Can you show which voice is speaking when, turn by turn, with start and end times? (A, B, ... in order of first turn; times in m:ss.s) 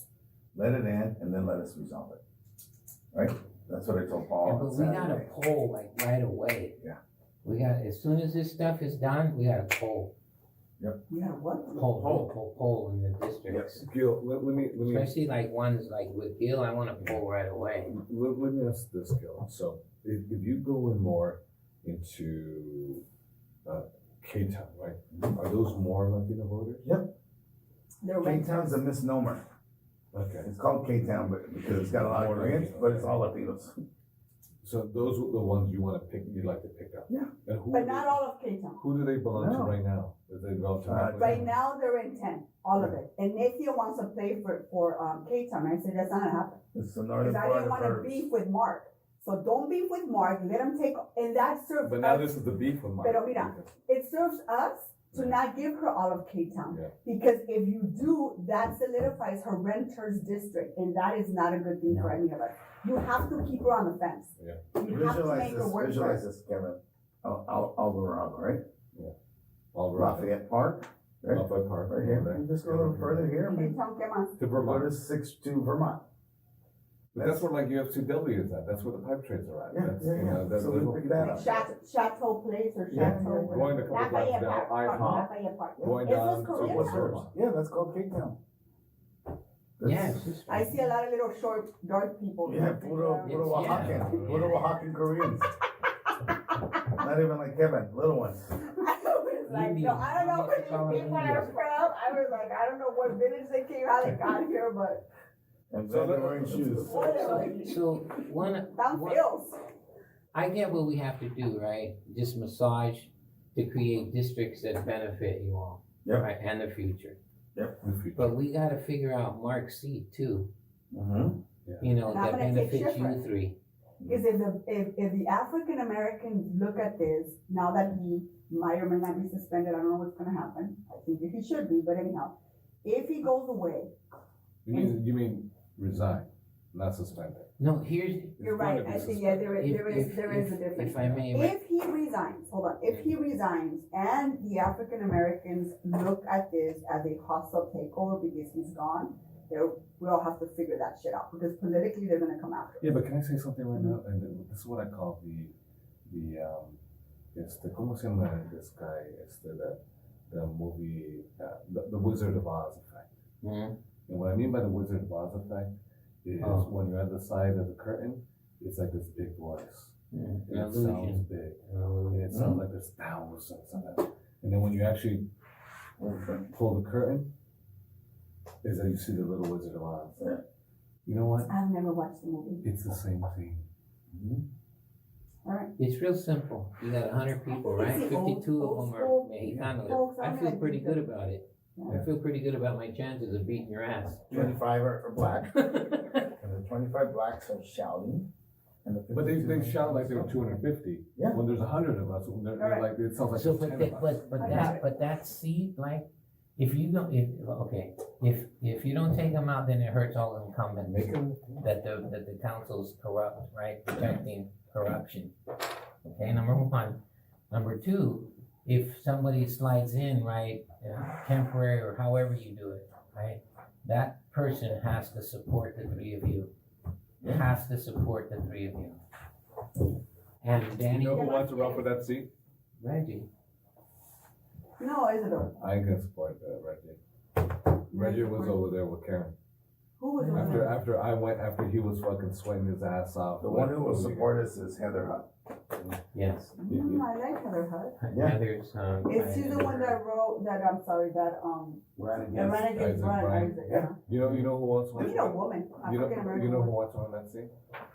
0:00.5-0:02.2 A
0:03.1-0:05.3 A
0:04.4-0:06.8 B
0:07.4-0:10.1 B
0:11.1-0:11.8 C
0:11.7-0:13.8 B
0:11.9-0:12.3 A
0:13.5-0:13.8 A
0:13.8-0:15.1 D
0:14.8-0:17.9 B
0:17.9-0:23.0 D
0:23.6-0:26.9 D
0:26.8-0:27.1 A
0:28.0-0:28.8 C
0:28.2-0:29.4 A
0:30.1-0:30.5 D
0:30.4-0:33.8 A
0:31.7-0:33.2 D
0:34.6-0:38.2 D
0:37.7-0:38.8 C
0:38.8-0:41.5 D
0:39.3-0:39.8 A
0:40.8-0:41.4 A
0:41.2-0:46.6 C
0:46.7-0:48.3 A
0:47.2-0:52.5 C
0:51.8-0:53.7 D
0:53.0-1:06.2 C
0:55.1-0:55.4 D
1:04.8-1:08.6 A
1:09.7-1:10.3 D
1:09.9-1:13.7 A
1:11.3-1:13.3 D
1:13.4-1:14.3 C
1:14.4-1:14.9 D
1:14.5-1:16.0 A
1:17.1-1:21.6 D
1:17.1-1:17.5 A
1:19.7-1:21.6 A
1:21.2-1:27.2 C
1:22.9-1:23.8 A
1:22.9-1:27.3 D
1:24.9-1:25.2 A
1:25.8-1:28.4 A
1:29.8-1:30.3 A
1:29.8-1:30.8 B
1:30.4-1:34.5 C
1:32.4-1:35.5 A
1:33.2-1:34.6 B
1:33.7-1:34.5 D
1:36.9-1:38.5 A
1:38.6-1:45.0 C
1:39.4-1:41.6 B
1:45.7-1:47.0 A
1:45.8-1:47.5 D
1:46.8-1:47.8 C
1:47.0-1:49.2 B
1:48.6-1:49.6 C
1:50.3-1:57.2 B
1:57.8-1:58.4 D
1:58.2-2:00.5 B
2:00.9-2:01.4 A
2:01.6-2:01.9 D
2:01.8-2:03.6 B
2:02.0-2:03.2 C
2:04.1-2:13.9 C
2:14.6-2:17.5 D
2:17.6-2:18.4 B
2:18.4-2:19.6 D
2:18.4-2:33.0 C
2:19.6-2:21.6 B
2:32.8-2:35.5 D
2:36.1-2:36.8 D
2:37.3-2:43.2 D
2:43.4-2:43.8 B
2:44.1-2:45.7 D
2:46.2-2:49.9 D
2:46.4-2:46.7 B
2:50.1-2:52.3 B
2:50.5-2:51.6 D
2:52.1-2:55.3 D
2:52.3-2:52.6 A
2:56.0-2:56.5 A
2:56.4-2:57.3 D
2:58.6-3:00.2 D
3:00.2-3:00.4 A
3:01.0-3:01.5 D
3:01.5-3:02.6 C
3:02.6-3:03.6 D
3:04.1-3:04.4 A
3:05.4-3:05.7 C
3:05.8-3:14.5 B
3:07.5-3:09.3 C
3:09.4-3:10.0 D
3:09.9-3:11.1 C
3:11.8-3:12.0 C
3:14.3-3:15.6 A
3:15.6-3:16.2 B
3:16.2-3:18.3 A
3:18.8-3:20.3 A
3:19.1-3:24.7 D
3:22.6-3:22.9 C
3:23.3-3:35.3 B
3:24.4-3:24.8 C
3:30.8-3:31.6 D
3:36.1-3:46.5 B
3:47.2-3:47.4 A
3:47.2-3:49.0 B
3:50.4-3:51.4 B
3:50.8-3:52.3 D
3:51.1-3:51.9 C
3:52.8-3:53.3 B
3:54.8-3:55.5 C
3:55.4-3:57.0 D
3:57.9-3:59.3 D
3:57.9-3:58.6 C
4:00.0-4:00.8 C
4:00.2-4:00.7 B
4:00.3-4:04.3 D
4:03.4-4:05.3 A
4:06.1-4:06.5 B
4:06.6-4:08.0 C
4:06.7-4:07.0 D
4:08.0-4:10.0 B
4:08.1-4:08.4 A
4:09.0-4:14.0 C
4:12.0-4:12.7 A
4:12.5-4:17.5 D
4:13.6-4:13.9 A
4:14.2-4:14.5 B
4:14.9-4:16.7 C